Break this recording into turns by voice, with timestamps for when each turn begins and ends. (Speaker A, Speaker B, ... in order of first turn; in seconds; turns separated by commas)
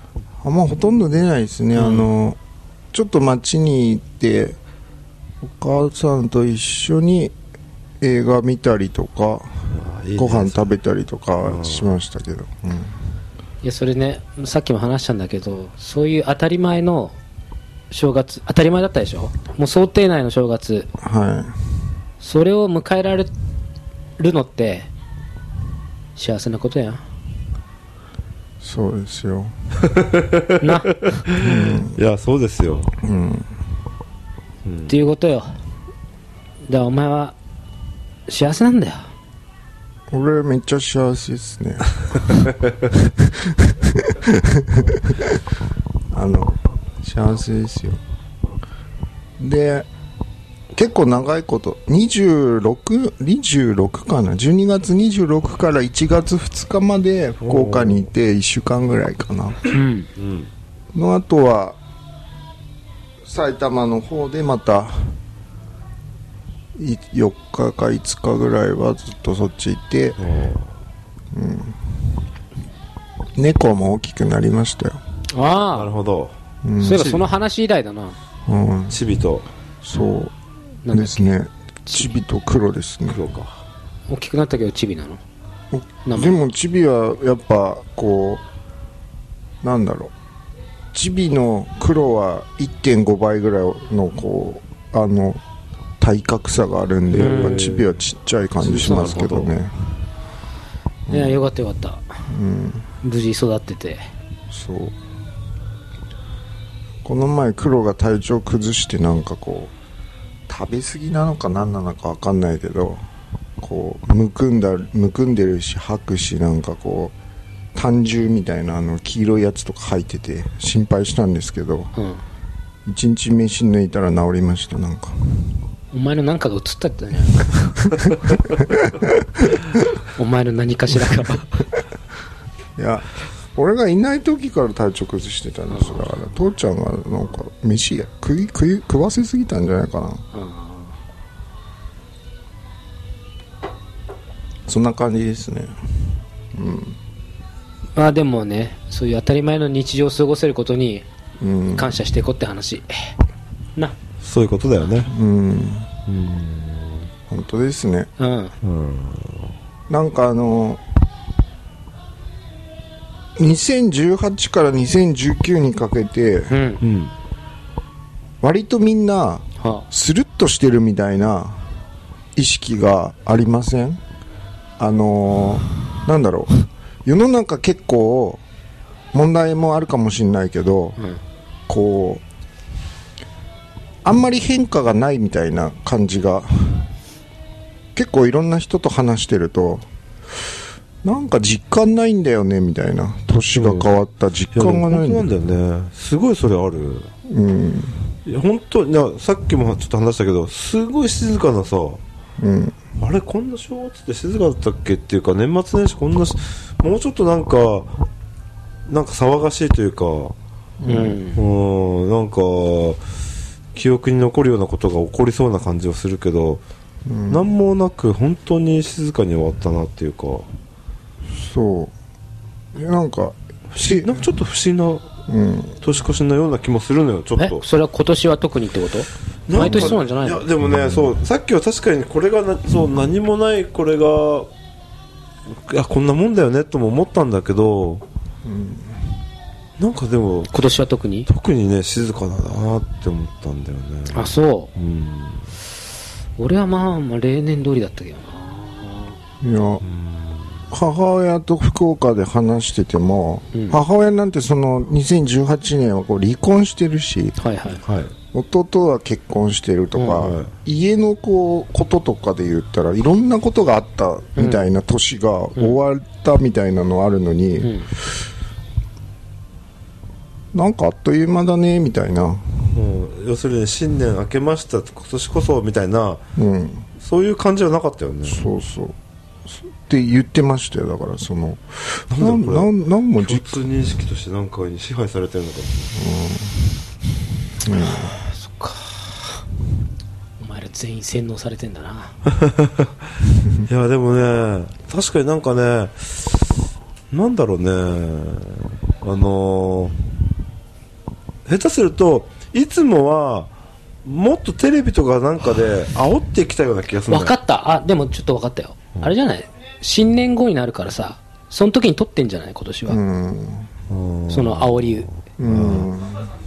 Speaker A: 0.4-2.4, Speaker A: 2.9-4.6, Speaker A: 5.4-7.3, Speaker A: 8.0-9.7, Speaker B: 9.7-10.7, Speaker A: 10.2-13.0, Speaker B: 11.4-11.9, Speaker C: 13.6-17.2, Speaker C: 17.9-20.9, Speaker A: 21.0-21.6, Speaker C: 22.2-23.3, Speaker C: 24.2-24.9, Speaker C: 26.2-27.0, Speaker A: 28.6-29.5, Speaker B: 29.8-32.9, Speaker C: 30.6-30.9, Speaker A: 31.4-32.0, Speaker A: 33.0-33.5, Speaker B: 34.6-35.0, Speaker C: 34.9-35.5, Speaker C: 36.7-37.4, Speaker C: 38.3-39.1, Speaker A: 40.1-45.4, Speaker A: 46.1-48.0, Speaker A: 49.4-49.9, Speaker A: 50.7-59.7, Speaker B: 57.4-58.0, Speaker C: 59.7-60.1, Speaker B: 60.2-60.5, Speaker A: 60.9-61.8, Speaker A: 63.2-65.2, Speaker A: 66.8-70.2, Speaker B: 70.2-70.7, Speaker A: 71.3-72.0, Speaker A: 73.4-75.0, Speaker C: 75.3-75.9, Speaker B: 75.7-76.4, Speaker A: 76.6-77.1, Speaker C: 76.8-78.2, Speaker B: 76.9-77.3, Speaker A: 78.5-79.0, Speaker B: 78.9-79.5, Speaker A: 79.8-80.3, Speaker C: 80.9-81.3, Speaker A: 80.9-83.2, Speaker B: 83.1-83.6, Speaker C: 84.1-85.2, Speaker A: 85.7-88.4, Speaker C: 86.1-86.4, Speaker A: 89.6-90.1, Speaker A: 90.9-95.4, Speaker A: 96.0-99.7, Speaker B: 97.1-98.0, Speaker C: 97.2-97.7, Speaker B: 98.6-99.6, Speaker C: 98.8-99.3, Speaker A: 101.1-101.4, Speaker C: 101.1-102.1, Speaker A: 102.3-102.9, Speaker C: 103.0-104.1, Speaker A: 104.5-105.0, Speaker A: 107.0-109.7, Speaker A: 110.5-113.1, Speaker A: 113.6-117.1, Speaker A: 117.8-121.9, Speaker C: 122.0-122.2, Speaker A: 122.9-125.5, Speaker C: 125.9-127.6, Speaker A: 128.7-129.6, Speaker C: 130.2-131.7, Speaker A: 132.8-140.2, Speaker C: 140.3-140.9, Speaker A: 144.7-147.0, Speaker C: 148.0-151.1, Speaker A: 151.4-152.0, Speaker C: 151.8-153.1, Speaker B: 154.2-155.1, Speaker A: 155.1-155.9, Speaker B: 156.1-157.1, Speaker A: 157.3-158.1, Speaker C: 158.2-158.5, Speaker B: 158.6-159.5, Speaker A: 159.9-160.8, Speaker A: 163.4-166.6, Speaker C: 166.5-166.8, Speaker B: 166.8-167.1, Speaker A: 168.4-171.7, Speaker C: 169.6-169.8, Speaker A: 172.3-174.0, Speaker A: 174.8-178.4, Speaker A: 179.1-181.0, Speaker A: 181.7-182.2, Speaker A: 184.0-186.9, Speaker A: 187.9-189.9, Speaker A: 191.0-195.3, Speaker B: 193.5-193.9, Speaker B: 194.5-197.1, Speaker A: 197.3-198.1, Speaker B: 198.2-202.0, Speaker A: 202.4-202.8, Speaker B: 203.0-207.9, Speaker B: 208.9-210.3, Speaker A: 210.8-211.2, Speaker C: 210.9-211.4, Speaker B: 211.3-213.0, Speaker B: 213.7-216.6, Speaker A: 217.1-217.5, Speaker B: 217.3-220.5, Speaker A: 221.3-221.9, Speaker A: 222.7-224.2, Speaker B: 223.7-225.1, Speaker A: 225.3-225.8, Speaker B: 225.8-227.7, Speaker C: 227.4-230.4, Speaker B: 229.5-234.5, Speaker A: 229.6-230.0, Speaker B: 235.5-238.0, Speaker A: 238.4-239.1, Speaker B: 239.8-240.6, Speaker C: 240.5-241.3, Speaker B: 241.3-245.5, Speaker C: 244.1-244.7, Speaker C: 246.4-249.2, Speaker A: 249.4-249.8, Speaker B: 249.8-250.7, Speaker A: 250.7-257.4, Speaker C: 253.5-253.8, Speaker C: 257.4-257.8, Speaker B: 257.8-258.1, Speaker A: 258.3-268.2, Speaker B: 260.1-260.5, Speaker C: 264.4-264.7, Speaker C: 267.6-267.9, Speaker A: 270.5-272.6, Speaker B: 272.7-276.2, Speaker A: 276.4-276.9, Speaker B: 277.0-278.5, Speaker A: 278.3-283.6, Speaker B: 282.1-285.9, Speaker A: 285.9-286.8, Speaker A: 287.6-288.2, Speaker C: 287.8-289.4, Speaker C: 290.4-292.1, Speaker B: 292.3-292.9, Speaker B: 293.6-296.6, Speaker B: 297.1-299.9, Speaker B: 301.5-303.5, Speaker B: 304.0-307.4, Speaker C: 307.1-313.0, Speaker A: 312.9-313.7, Speaker B: 313.9-315.9, Speaker C: 314.3-315.1, Speaker A: 315.4-316.3